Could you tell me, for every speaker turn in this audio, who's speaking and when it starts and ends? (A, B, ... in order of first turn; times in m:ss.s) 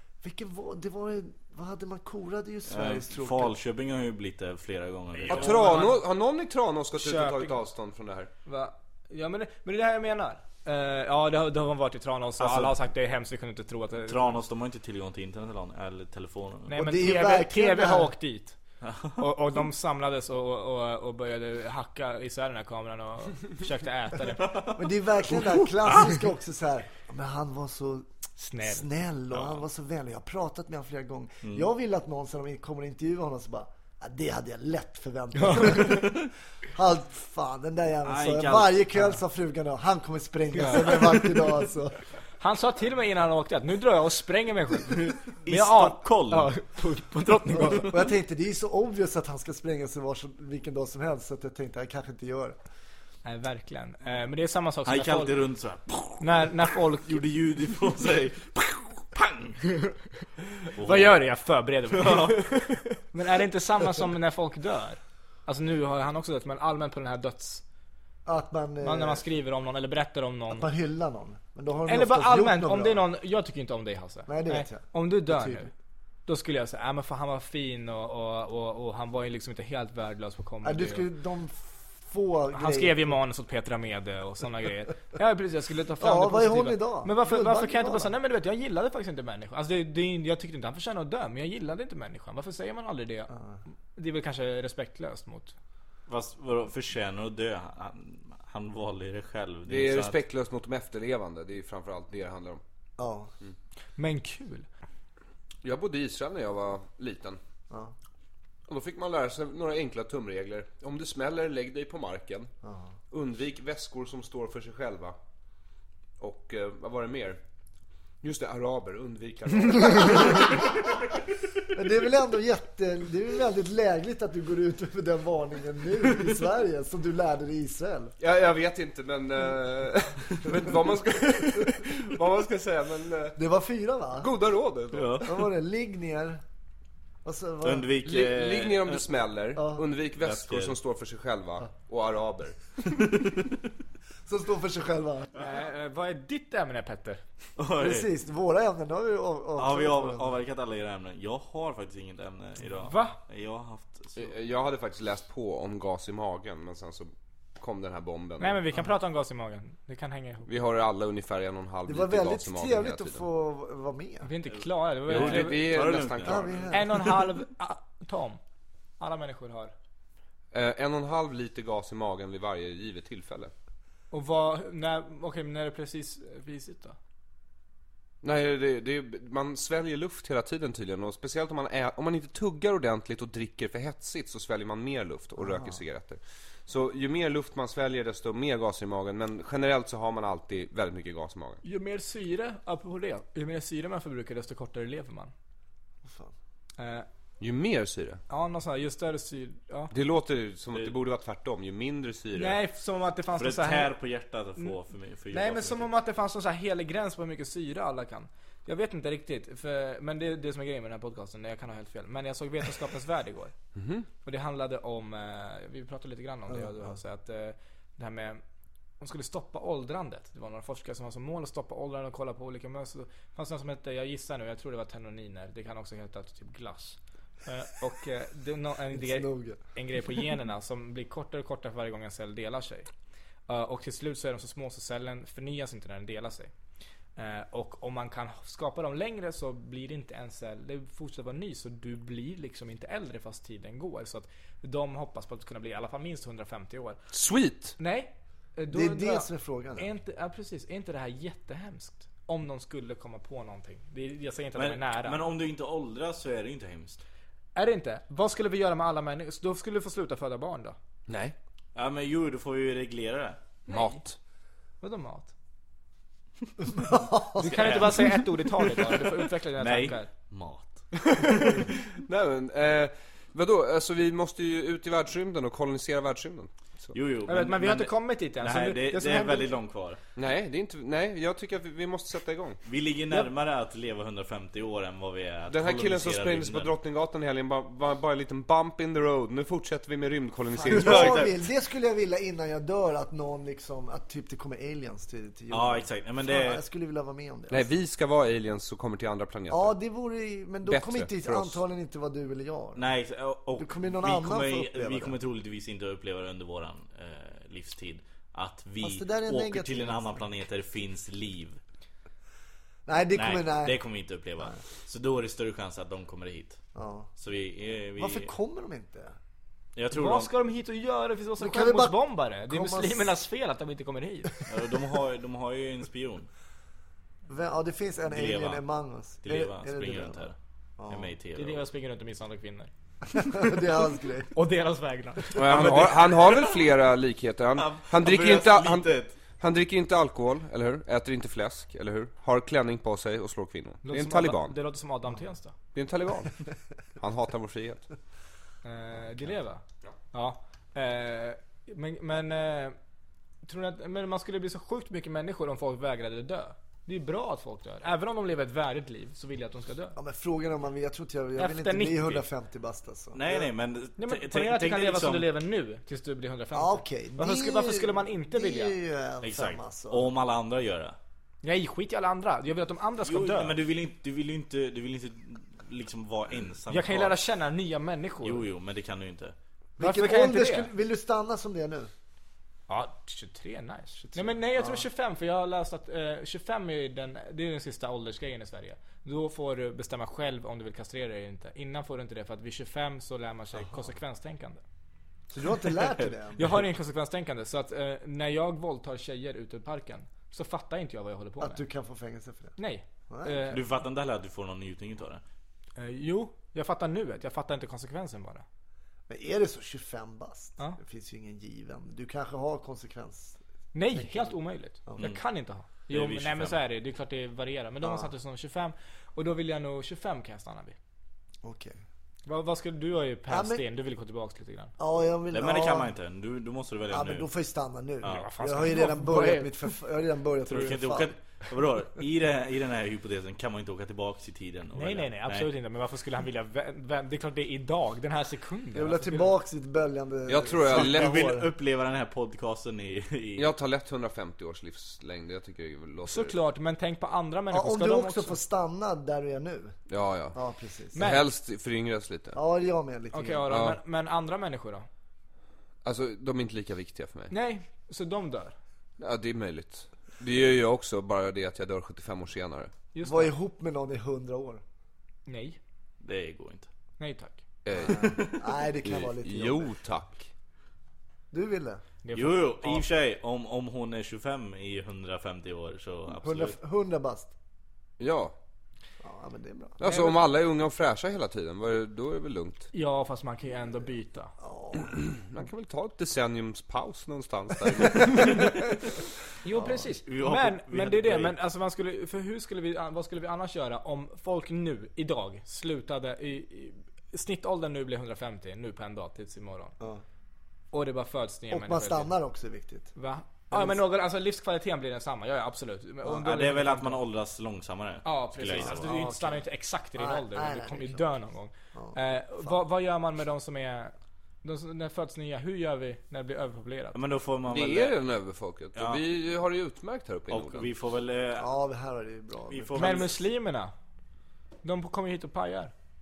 0:00.2-0:03.6 A
0:02.7-0:05.9 B
0:05.3-0:08.3 C
0:05.3-0:06.0 D
0:07.0-0:07.6 D
0:08.5-0:14.4 D
0:12.4-0:12.8 B
0:14.1-0:16.8 B
0:16.7-0:18.6 D
0:16.7-0:18.1 A
0:18.8-0:19.3 B
0:19.2-0:24.6 D
0:24.4-0:24.8 B
0:24.8-0:28.1 A
0:28.4-0:28.9 D
0:28.6-0:42.0 A
0:35.4-0:36.1 D
0:38.0-0:38.8 B
0:40.6-0:41.0 D
0:42.4-0:48.0 D
0:45.0-0:46.5 B
0:47.6-0:52.6 A
0:53.2-0:55.4 D
0:54.9-0:56.5 B
0:56.2-0:57.2 D
0:57.0-0:59.6 B
1:00.7-1:01.2 B
1:00.8-1:02.6 D
1:01.9-1:03.0 B
1:03.1-1:07.6 D
1:08.2-1:09.2 A
1:08.8-1:10.7 D
1:10.5-1:13.0 A
1:11.9-1:15.7 D
1:14.3-1:15.7 A
1:16.3-1:21.1 D
1:20.6-1:23.2 A
1:22.5-1:33.3 D
1:26.0-1:28.1 A
1:33.3-1:33.6 A
1:33.9-1:35.6 D
1:36.1-1:40.2 B
1:39.7-1:42.6 C
1:43.0-1:43.3 A
1:44.0-1:44.6 D
1:45.6-1:47.4 C
1:47.7-1:47.9 A
1:48.7-1:52.5 C
1:52.6-1:52.9 A
1:53.1-1:55.2 C
1:56.2-1:57.4 C
1:58.2-2:00.7 C
2:01.7-2:08.1 A
2:08.2-2:13.4 C
2:13.4-2:14.3 A
2:14.2-2:15.3 C
2:14.9-2:15.3 B
2:15.2-2:16.4 A
2:17.2-2:17.9 A
2:17.6-2:19.0 B
2:18.0-2:22.7 C
2:19.6-2:19.8 A
2:20.2-2:20.8 B
2:24.3-2:25.4 A
2:25.4-2:27.2 D
2:27.6-2:28.1 B
2:27.8-2:30.4 A
2:29.6-2:34.3 B
2:32.8-2:33.2 D
2:34.2-2:38.6 C
2:38.4-2:40.5 D
2:40.5-2:43.2 C
2:41.9-2:44.3 A
2:44.2-2:45.9 D
2:44.6-2:47.2 B
2:45.1-2:46.7 C
2:46.2-2:46.8 A
2:46.7-2:48.4 D
2:49.0-2:49.7 D
2:50.5-2:53.5 C
2:54.1-2:57.0 D
2:58.2-3:11.6 C
3:05.4-3:05.8 A
3:11.6-3:15.3 D
3:16.0-3:16.3 A
3:16.8-3:17.1 D
3:17.4-3:18.2 C
3:18.3-3:19.9 D
3:19.9-3:22.6 C
3:22.3-3:23.9 D
3:23.4-3:25.9 B
3:25.3-3:33.5 D
3:33.8-3:34.1 C
3:34.2-3:38.4 D
3:36.5-3:37.0 A
3:39.0-3:52.9 D
3:48.9-3:49.6 A
3:53.5-3:56.5 D
3:57.2-4:07.0 D
4:07.1-4:07.8 C
4:07.8-4:15.2 D
4:08.7-4:09.9 A
4:14.6-4:17.0 B
4:17.6-4:20.8 D
4:21.1-4:21.4 C
4:21.8-4:23.4 B
4:23.7-4:24.0 D
4:23.7-4:24.2 C
4:24.8-4:25.3 D
4:26.7-4:28.0 A
4:27.4-4:30.1 D
4:27.4-4:31.6 B
4:31.2-4:36.9 C
4:36.9-4:40.0 B
4:37.3-4:39.5 D
4:40.2-4:42.6 C
4:42.6-4:46.7 B
4:45.5-4:51.3 C
4:50.6-4:57.7 A
4:50.7-4:51.3 B
4:55.5-4:56.6 B
4:57.5-4:59.8 C
4:59.5-5:02.9 A
5:00.6-5:01.6 C
5:02.8-5:11.6 B
5:03.6-5:05.2 A
5:08.8-5:10.3 A
5:12.9-5:13.8 A
5:13.1-5:16.6 B
5:16.8-5:17.1 A
5:17.2-5:18.3 B
5:18.0-5:19.2 A
5:19.8-5:20.3 B
5:19.9-5:24.4 D
5:21.4-5:23.1 A
5:24.5-5:26.3 B
5:27.3-5:31.1 A
5:28.1-5:28.6 B
5:29.2-5:30.4 B
5:30.9-5:31.6 B
5:31.4-5:32.7 D
5:33.1-5:34.3 A
5:34.3-5:35.9 D
5:35.4-5:44.6 C
5:35.5-5:36.3 B
5:37.6-5:39.2 B
5:43.8-5:45.5 D
5:45.8-5:46.4 C
5:47.0-5:47.9 C
5:48.6-5:49.6 D
5:50.1-5:52.8 D
5:53.4-6:00.0 D
6:00.0-6:03.5 A
6:01.4-6:02.2 D
6:03.1-6:05.2 B
6:04.0-6:08.8 D
6:06.5-6:10.1 A
6:09.2-6:11.0 B
6:11.4-6:13.6 D
6:13.0-6:17.2 B
6:16.7-6:18.4 D
6:18.2-6:19.4 B
6:19.8-6:21.9 A
6:19.8-6:20.7 D
6:22.7-6:34.6 D
6:24.5-6:24.9 A
6:35.3-6:36.4 A
6:35.8-6:36.6 B
6:36.4-6:41.6 D
6:41.4-6:42.6 A
6:42.6-6:43.6 D
6:43.1-6:43.5 A
6:43.5-6:45.2 B
6:45.8-6:48.4 D
6:49.1-6:53.4 A
6:53.7-7:00.8 D
6:53.9-6:54.4 A
6:55.9-6:56.6 B
6:57.8-6:58.1 A
7:01.4-7:01.8 A
7:02.3-7:04.7 D
7:03.3-7:03.6 A
7:04.8-7:05.9 A
7:05.3-7:07.3 B
7:06.9-7:11.1 A
7:08.0-7:08.3 B
7:08.1-7:09.6 D
7:10.5-7:15.5 B
7:14.8-7:19.3 D
7:18.7-7:21.5 A
7:20.3-7:21.2 C
7:20.7-7:23.5 B
7:23.4-7:26.4 C
7:26.1-7:28.4 D
7:27.5-7:29.8 A
7:29.9-7:30.4 C
7:30.3-7:31.1 A
7:30.9-7:31.2 D
7:31.0-7:32.4 C
7:32.4-7:33.5 A
7:33.1-7:34.9 D
7:33.5-7:33.8 C
7:35.8-7:37.3 C
7:37.3-7:38.5 D
7:39.0-7:42.7 C
7:42.9-7:43.3 D
7:43.0-7:44.6 A
7:45.3-7:45.6 D
7:46.0-7:46.7 B
7:47.0-7:47.4 D
7:47.6-7:48.3 C
7:47.7-7:49.7 A
7:48.0-7:48.4 B
7:48.9-7:50.3 C
7:51.3-7:51.8 A
7:52.0-7:52.9 D
7:52.1-7:56.6 B
7:56.2-7:57.3 A
7:58.0-7:58.3 C
7:59.0-7:59.8 A
7:59.8-8:02.7 C
7:59.8-8:00.2 D
8:02.7-8:04.3 D
8:04.4-8:04.9 A
8:04.8-8:08.6 C
8:08.2-8:08.7 D
8:09.4-8:19.7 D
8:09.5-8:09.9 A
8:10.0-8:11.4 B
8:20.7-8:22.1 D
8:21.5-8:22.9 A
8:23.0-8:27.0 D
8:23.5-8:23.8 A
8:26.1-8:29.0 B
8:28.0-8:37.0 D
8:28.5-8:29.4 A
8:30.0-8:31.1 A
8:31.7-8:32.6 A
8:36.9-8:38.0 B
8:37.5-8:40.7 C
8:38.8-8:39.0 B
8:40.3-8:41.5 B
8:41.4-8:43.1 A
8:42.5-8:43.2 B
8:42.8-8:43.7 D
8:44.6-8:45.7 D